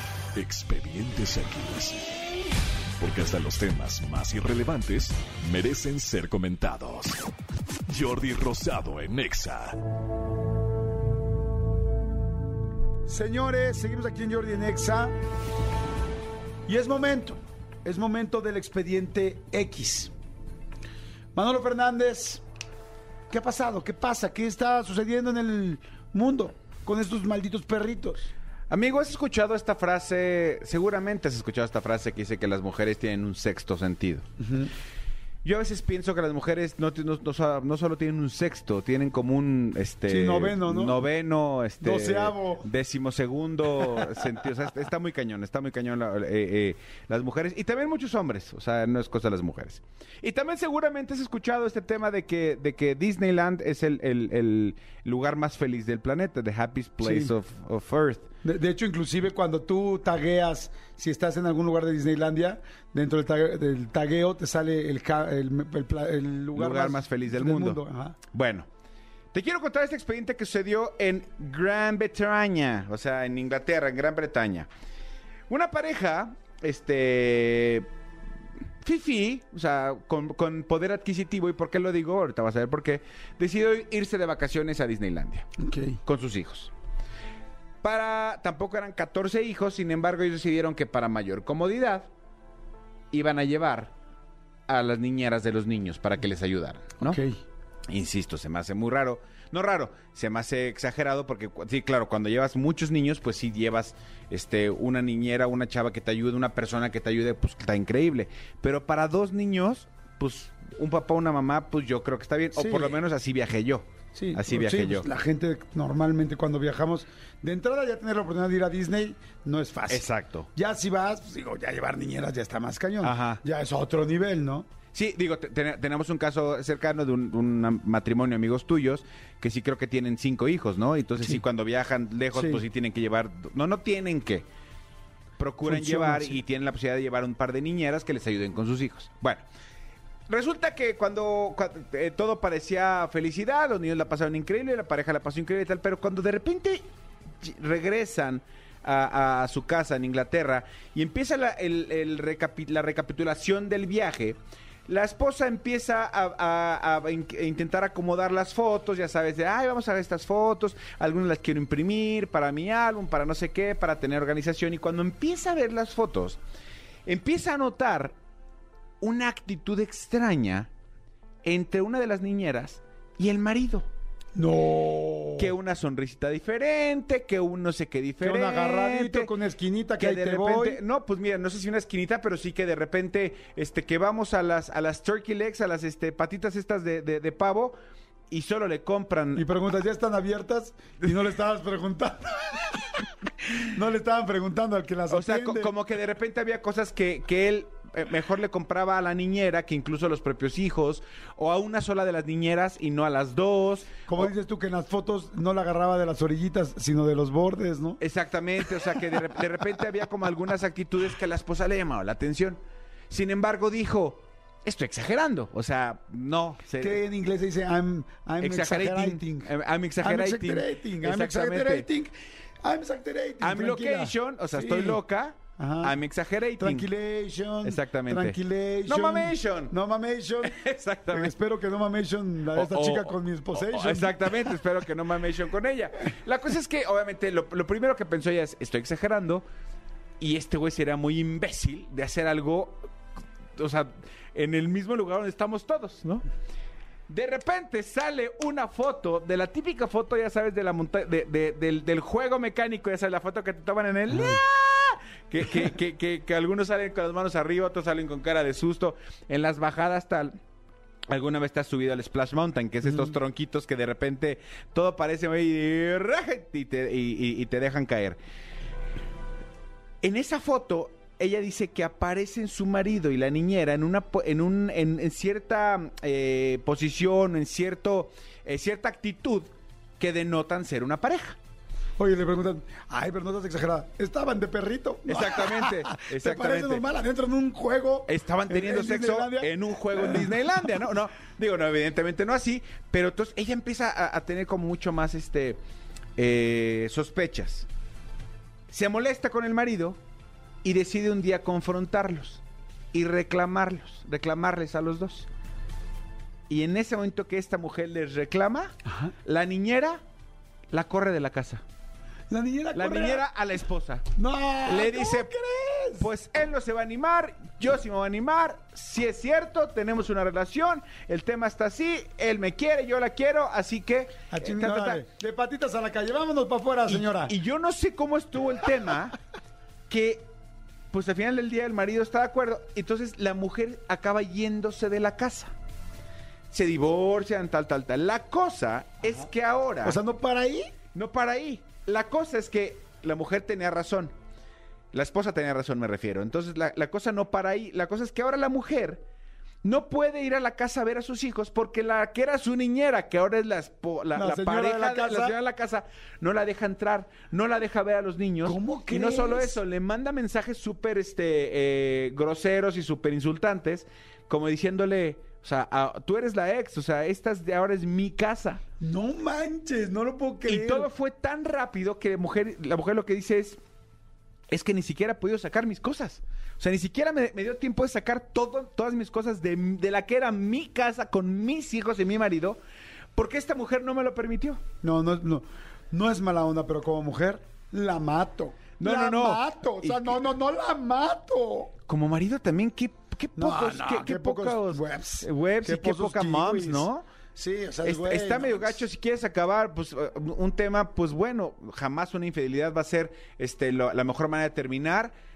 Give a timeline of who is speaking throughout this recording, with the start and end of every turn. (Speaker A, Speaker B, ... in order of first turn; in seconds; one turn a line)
Speaker A: 0.3-2.2
Speaker A: 3.0-7.2
Speaker A: 7.9-9.8
Speaker B: 13.1-15.1
Speaker B: 16.7-20.1
Speaker B: 21.4-22.4
Speaker B: 23.3-28.3
Speaker C: 28.7-34.3
Speaker B: 34.4-34.7
Speaker C: 35.4-58.3
Speaker B: 40.1-41.0
Speaker B: 41.8-42.6
Speaker B: 57.0-57.3
Speaker B: 58.4-68.2
Speaker C: 66.5-68.7
Speaker C: 69.3-74.7
Speaker C: 75.5-77.9
Speaker C: 78.8-85.5
Speaker B: 85.6-86.0
Speaker C: 86.0-86.7
Speaker C: 87.8-92.1
Speaker C: 93.1-93.9
Speaker C: 94.7-97.2
Speaker B: 97.0-97.4
Speaker C: 97.9-115.1
Speaker B: 112.5-113.0
Speaker B: 114.2-124.7
Speaker C: 119.9-120.5
Speaker C: 123.0-123.4
Speaker C: 124.9-134.5
Speaker B: 132.3-132.6
Speaker C: 135.4-139.4
Speaker B: 135.6-136.4
Speaker C: 140.3-146.8
Speaker C: 147.4-166.4
Speaker C: 167.1-168.2
Speaker C: 169.0-170.7
Speaker C: 171.4-173.9
Speaker B: 174.3-175.5
Speaker C: 175.4-179.3
Speaker B: 178.2-180.8
Speaker C: 180.0-187.8
Speaker C: 188.3-189.4
Speaker B: 189.3-192.8
Speaker B: 193.6-195.7
Speaker C: 195.1-204.3
Speaker B: 204.1-208.0
Speaker C: 208.0-217.0
Speaker B: 208.6-209.2
Speaker B: 216.8-225.0
Speaker C: 218.4-221.9
Speaker C: 223.4-226.9
Speaker B: 225.6-226.0
Speaker B: 226.6-234.5
Speaker C: 227.6-229.8
Speaker C: 230.4-231.3
Speaker C: 232.5-239.5
Speaker C: 240.2-242.9
Speaker C: 243.6-246.2
Speaker C: 247.1-260.4
Speaker B: 254.1-254.4
Speaker C: 261.1-268.2
Speaker B: 262.8-263.1
Speaker C: 270.0-281.4
Speaker B: 282.0-290.6
Speaker C: 285.1-286.9
Speaker C: 288.1-295.6
Speaker C: 296.2-297.7
Speaker C: 298.7-300.0
Speaker C: 300.6-302.4
Speaker C: 302.9-305.3
Speaker C: 306.5-308.7
Speaker B: 308.9-309.1
Speaker C: 309.2-310.0
Speaker C: 310.7-311.6
Speaker B: 312.3-313.2
Speaker C: 312.7-314.1
Speaker B: 314.2-316.1
Speaker C: 314.6-315.3
Speaker C: 316.0-325.0
Speaker B: 324.3-327.3
Speaker C: 326.9-329.1
Speaker C: 329.9-330.3
Speaker C: 330.9-335.5
Speaker C: 336.5-340.0
Speaker B: 339.8-340.7
Speaker C: 340.9-344.1
Speaker C: 344.9-349.1
Speaker C: 349.6-368.6
Speaker B: 354.1-355.4
Speaker B: 358.4-359.6
Speaker B: 368.8-370.9
Speaker C: 370.5-373.6
Speaker C: 374.5-382.6
Speaker C: 383.2-384.6
Speaker B: 384.8-391.7
Speaker C: 388.8-390.3
Speaker C: 391.9-397.1
Speaker B: 393.4-398.8
Speaker C: 397.8-405.1